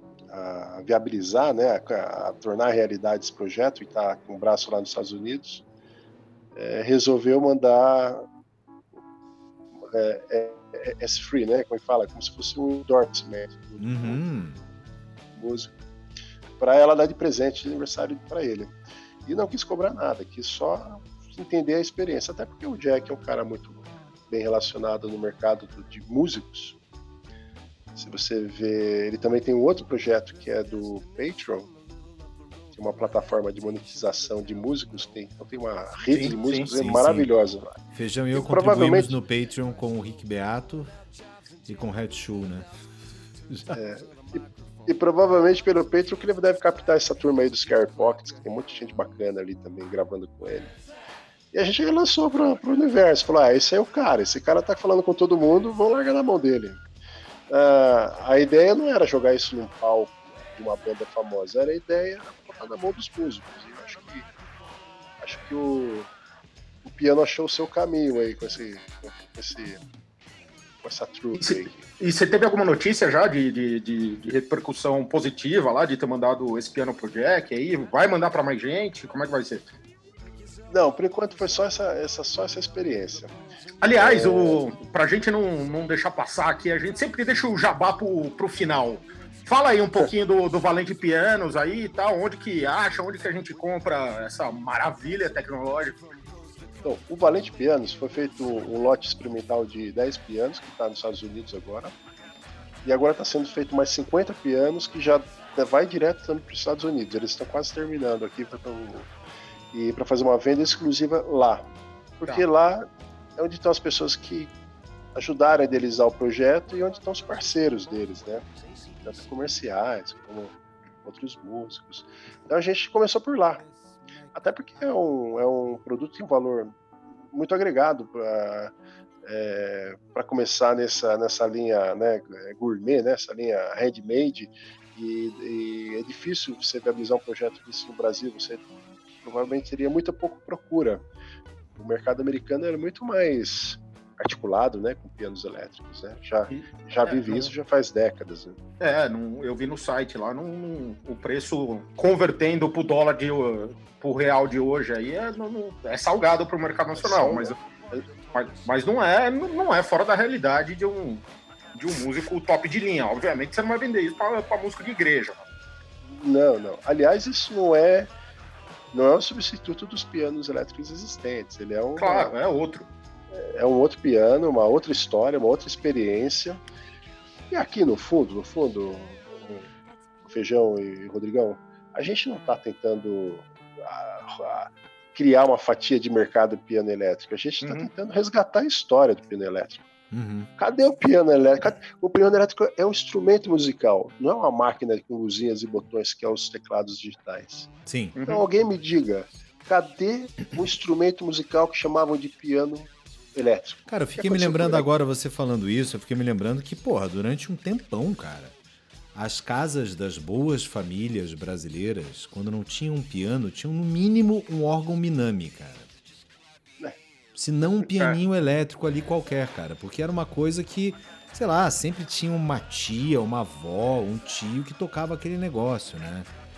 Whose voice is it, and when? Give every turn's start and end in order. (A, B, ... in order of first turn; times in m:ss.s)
0:00.3-0:05.6 A
0:06.5-0:08.2 A
0:09.9-0:14.2 A
0:13.8-0:14.6 B
0:15.3-0:15.7 A
0:16.6-0:18.7 A
0:19.2-0:26.8 A
0:27.9-0:31.7 A
0:32.7-0:37.8 A
0:36.1-0:36.7 C
0:36.7-0:37.3 B
0:37.9-0:40.9 B
0:38.3-0:39.2 A
0:41.6-0:42.7 B
0:43.5-0:43.7 B
0:43.7-0:50.7 A
0:51.5-0:56.8 A
0:57.5-1:04.3 A
1:05.2-1:06.1 A
1:06.8-1:09.8 A
1:10.8-1:11.8 A
1:11.4-1:19.6 C
1:20.7-1:23.3 A
1:23.8-1:36.0 C
1:23.9-1:24.6 A
1:36.8-1:41.9 A
1:42.8-1:49.1 A
1:49.7-1:51.7 A
1:52.2-1:54.5 A
1:55.1-1:58.4 A
1:59.0-2:03.6 A
2:04.3-2:06.7 A
2:07.3-2:08.7 A
2:09.2-2:18.6 A
2:19.2-2:21.0 A
2:21.8-2:28.6 A
2:26.5-2:27.5 C
2:28.8-2:37.6 C
2:37.0-2:38.0 A
2:38.3-2:41.2 C
2:41.7-2:45.4 C
2:46.1-2:48.1 A
2:48.9-2:52.3 A
2:52.0-2:52.9 C
2:53.3-2:56.6 A
2:57.5-2:59.6 A
3:00.2-3:09.9 A
3:07.6-3:07.9 C
3:10.1-3:10.5 B
3:10.6-3:17.7 A
3:17.8-3:18.2 B
3:18.2-3:18.4 C
3:18.2-3:24.9 A
3:23.9-3:28.5 B
3:29.1-3:35.9 B
3:37.3-3:46.3 B